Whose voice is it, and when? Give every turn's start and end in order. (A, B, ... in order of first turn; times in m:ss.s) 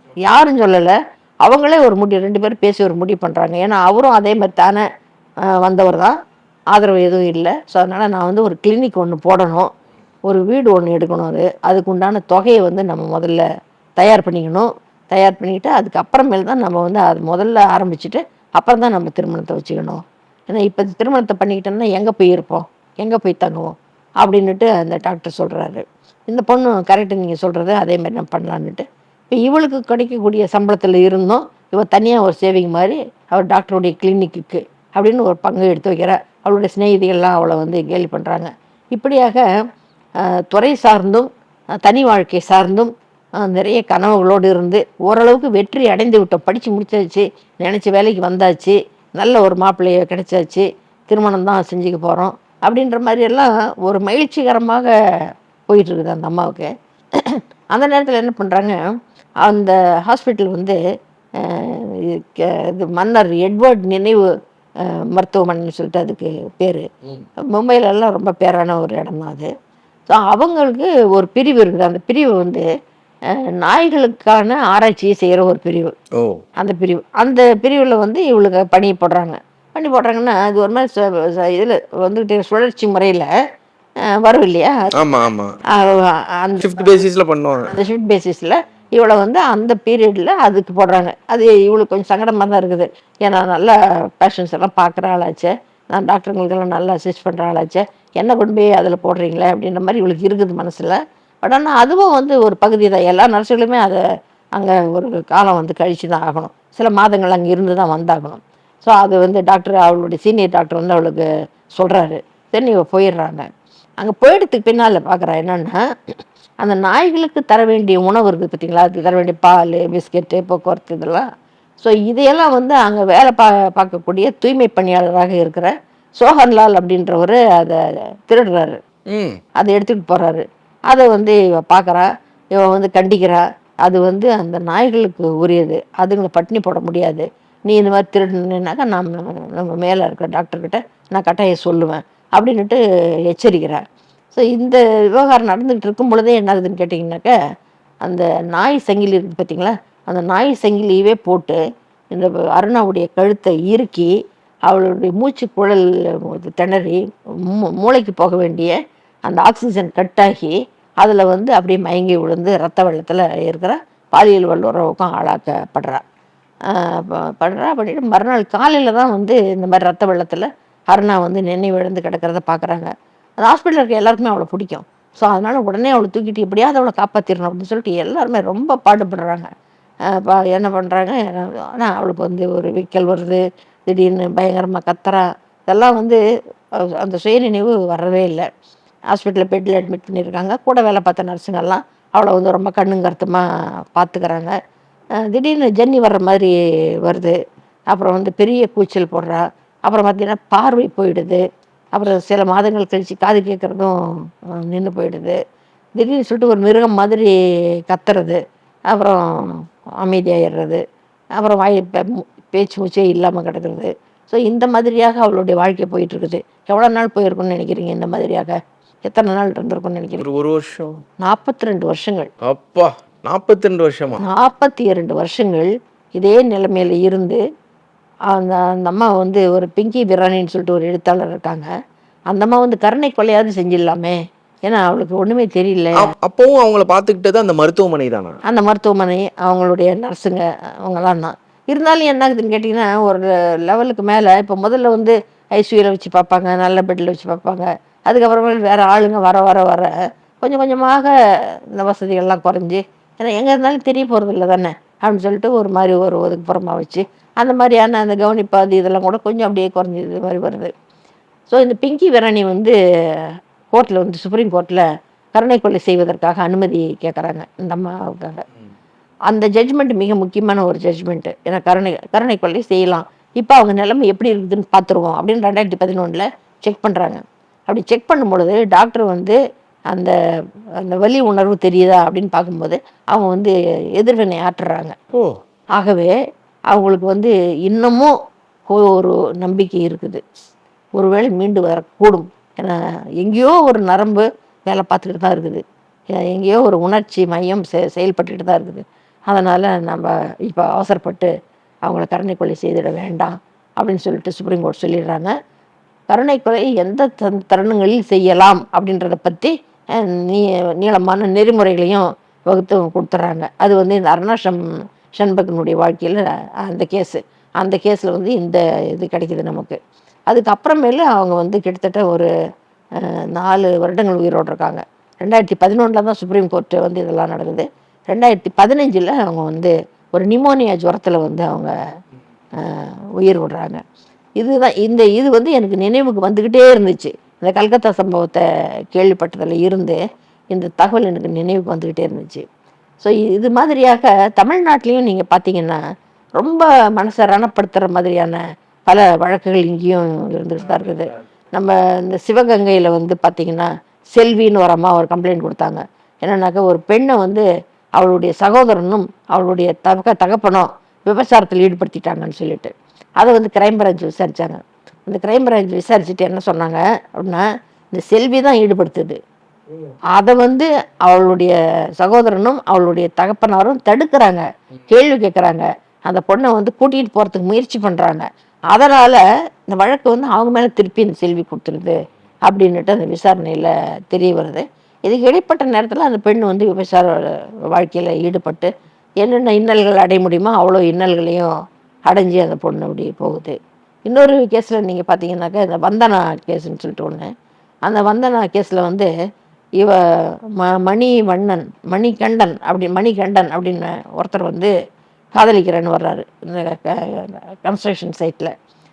0:00.2-0:04.8 A
0:05.6-0:06.2 A
0:06.7-0:09.7 A
0:10.3-0:13.4 A
0:14.0-0:39.4 A
0:40.5-0:41.3 A
0:41.8-0:54.9 A
0:55.7-0:58.8 A
0:59.4-1:00.8 A
1:01.4-1:04.3 A
1:04.9-1:06.9 A
1:07.5-1:09.5 A
1:10.1-1:12.6 A
1:13.3-1:15.9 A
1:16.2-1:16.4 B
1:16.6-1:23.3 A
1:24.2-1:24.8 A
1:25.0-1:25.6 B
1:25.7-1:27.0 A
1:26.6-1:27.7 B
1:27.7-1:44.0 A
1:44.6-1:51.3 A
1:51.8-1:53.5 A
1:54.0-1:55.8 A
1:56.6-2:01.3 A
2:01.8-2:08.8 A
2:09.1-2:09.4 B
2:09.6-2:22.8 A
2:23.3-2:27.3 A
2:28.0-2:31.6 A
2:32.1-2:34.1 A
2:34.7-2:38.8 A
2:39.3-2:46.0 A
2:46.7-2:59.5 A
3:00.1-3:06.2 A
3:07.0-3:08.5 A
3:09.1-3:13.4 A
3:14.0-3:14.5 A
3:15.2-3:16.5 A
3:17.0-3:17.4 A
3:17.9-3:21.4 A
3:22.0-3:24.0 A
3:24.6-3:25.4 A
3:26.0-3:27.3 A
3:27.9-3:28.4 A
3:28.9-3:30.8 A
3:31.4-3:40.2 A
3:40.2-3:40.9 B
3:41.2-3:42.3 A
3:42.4-3:44.2 B
3:44.2-3:47.4 A
3:48.3-3:51.7 A
3:52.3-3:56.1 A
3:56.0-3:58.4 B
3:58.5-4:09.9 A
4:10.4-4:11.1 A
4:11.8-4:20.7 A
4:21.5-4:28.4 A
4:29.3-4:39.4 A
4:40.8-4:45.0 A
4:45.8-4:46.1 A
4:46.7-4:48.1 A
4:48.7-4:50.2 A
4:51.0-4:55.6 A
4:56.2-5:01.3 A
5:01.9-5:05.3 A
5:06.1-5:14.6 A
5:15.2-5:19.8 A
5:20.3-5:22.3 A
5:23.0-5:31.7 A
5:32.6-5:33.8 A
5:34.4-5:38.4 A
5:38.9-5:40.0 A
5:40.5-5:42.4 A
5:43.0-5:45.8 A
5:46.4-5:57.4 A
5:58.0-6:09.2 A
6:10.1-6:22.0 A
6:22.5-6:28.7 A
6:29.2-6:31.5 A
6:32.1-6:37.3 A
6:37.9-6:39.1 A
6:40.6-6:44.7 A
6:45.4-6:48.5 A